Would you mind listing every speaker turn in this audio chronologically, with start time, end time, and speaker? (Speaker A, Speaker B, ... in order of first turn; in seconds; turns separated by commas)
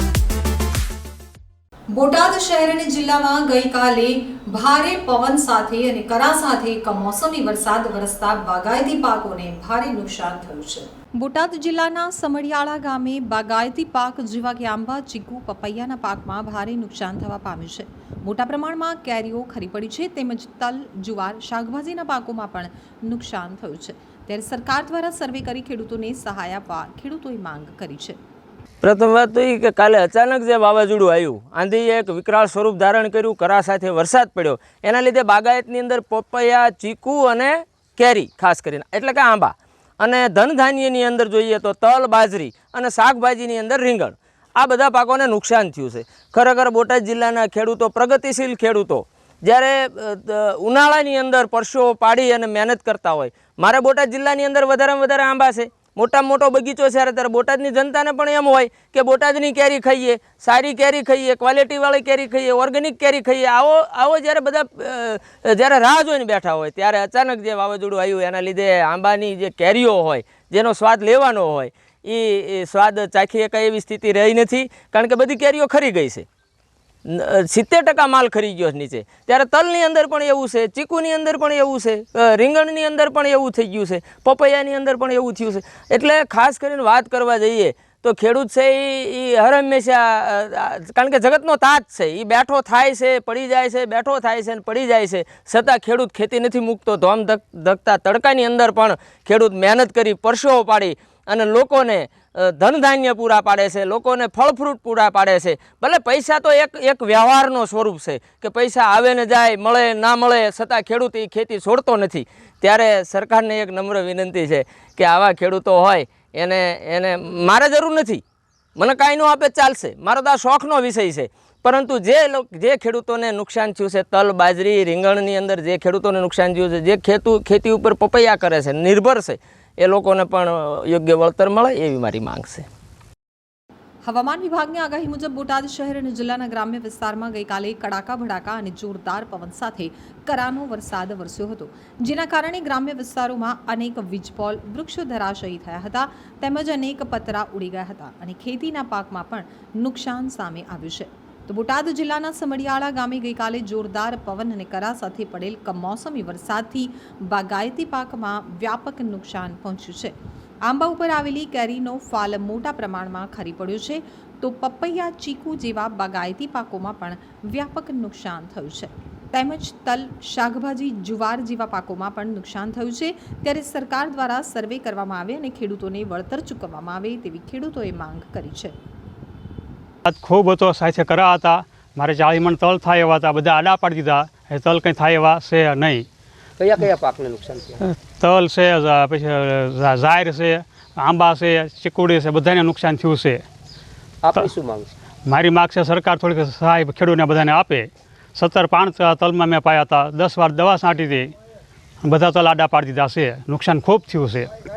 Speaker A: 1.9-28.2, Speaker B: 28.8-76.2, Speaker B: 77.0-118.2, Speaker B: 118.8-132.7, Speaker A: 134.1-160.1, Speaker A: 160.7-178.7, Speaker C: 180.1-186.1, Speaker D: 186.6-187.8, Speaker C: 188.1-193.4, Speaker D: 194.2-194.9, Speaker C: 195.3-201.3, Speaker C: 202.0-204.5